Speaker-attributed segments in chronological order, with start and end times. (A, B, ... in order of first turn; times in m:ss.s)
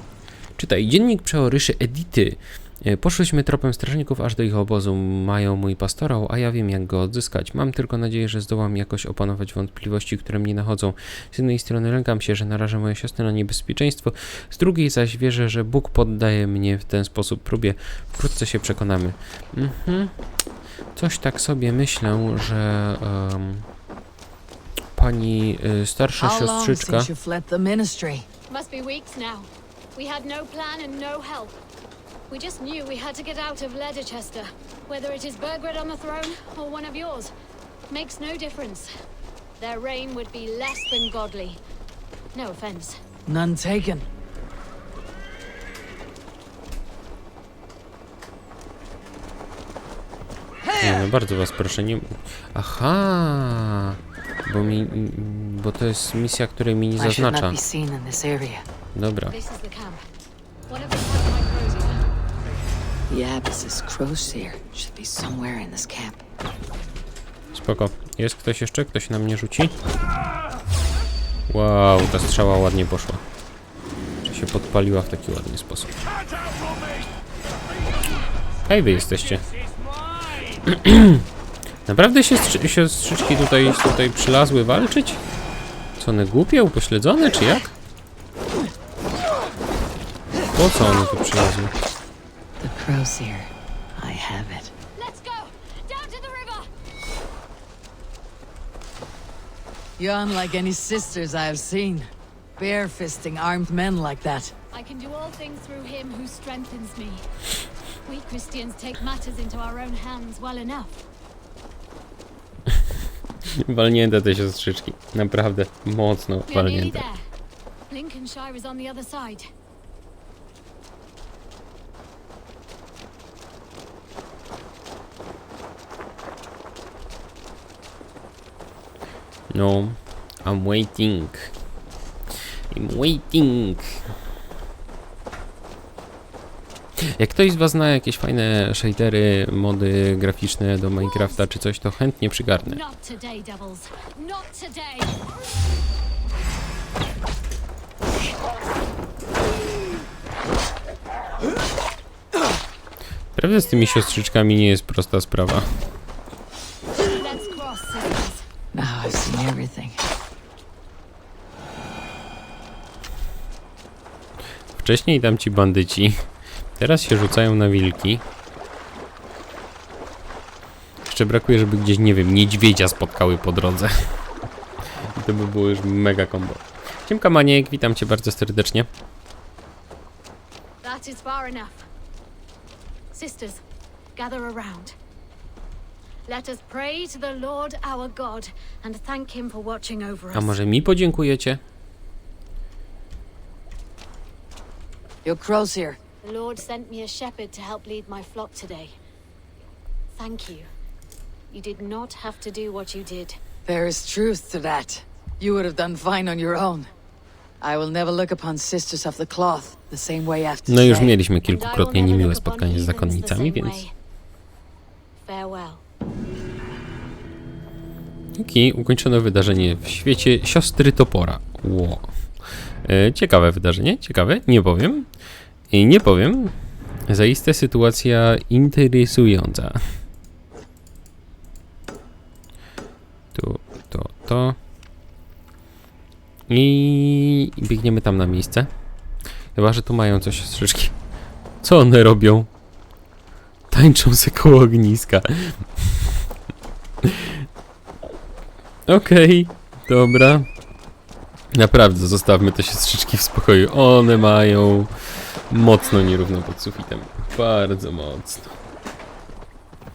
0:00.6-0:20.1 A
0:20.9-0:23.7 A
0:24.9-0:27.1 A
0:26.2-0:28.2 B
0:28.5-0:31.6 C
0:32.3-0:37.3 C
0:37.9-0:38.9 C
0:39.6-0:41.6 C
0:42.5-0:42.9 C
0:43.3-0:44.0 B
0:50.8-0:57.6 A
0:57.0-0:58.6 B
0:58.9-0:59.4 A
0:59.3-1:00.0 C
1:00.7-1:02.0 C
1:03.1-1:06.2 B
1:07.5-1:09.8 A
1:11.5-1:13.2 A
1:14.2-1:15.9 A
1:18.7-1:19.4 A
1:20.6-1:21.2 A
1:21.8-1:25.2 A
1:26.0-1:27.7 A
1:30.5-1:31.7 A
1:32.6-1:34.7 B
1:35.0-1:36.6 C
1:40.0-1:44.5 B
1:44.8-1:47.0 C
1:48.1-1:51.0 C
1:53.6-1:57.0 A
1:56.5-1:57.2 C
1:57.9-1:59.4 C
2:09.5-2:11.5 A
2:12.7-2:13.9 A
2:17.0-2:22.8 A
2:22.7-2:25.0 C
2:33.3-2:35.7 A
2:37.2-2:38.4 C
2:38.7-2:40.0 B
2:44.7-2:46.2 A
2:46.8-2:48.2 A
2:51.0-2:53.9 A
2:55.1-2:58.9 A
3:00.8-3:01.8 C
3:03.1-3:03.6 C
3:04.2-3:04.9 C
3:06.3-3:10.5 C
3:10.3-3:11.6 A
3:15.2-3:16.0 B
3:16.3-3:18.9 C
3:20.2-3:20.7 C
3:21.5-3:23.3 C
3:23.6-3:26.9 B
3:27.6-3:31.1 B
3:30.7-3:33.8 A
3:31.6-3:33.9 C
3:35.3-3:35.8 C
3:38.4-3:42.1 A
3:42.8-3:45.1 A
3:45.7-3:46.5 A
3:47.1-3:49.8 A
3:53.3-3:54.6 A
3:56.5-3:58.7 A
3:59.5-4:00.9 A
4:01.6-4:02.5 A
4:03.7-4:05.7 A
4:07.0-4:07.4 A
4:08.9-4:10.5 A
4:11.5-4:14.9 A
4:15.5-4:18.6 A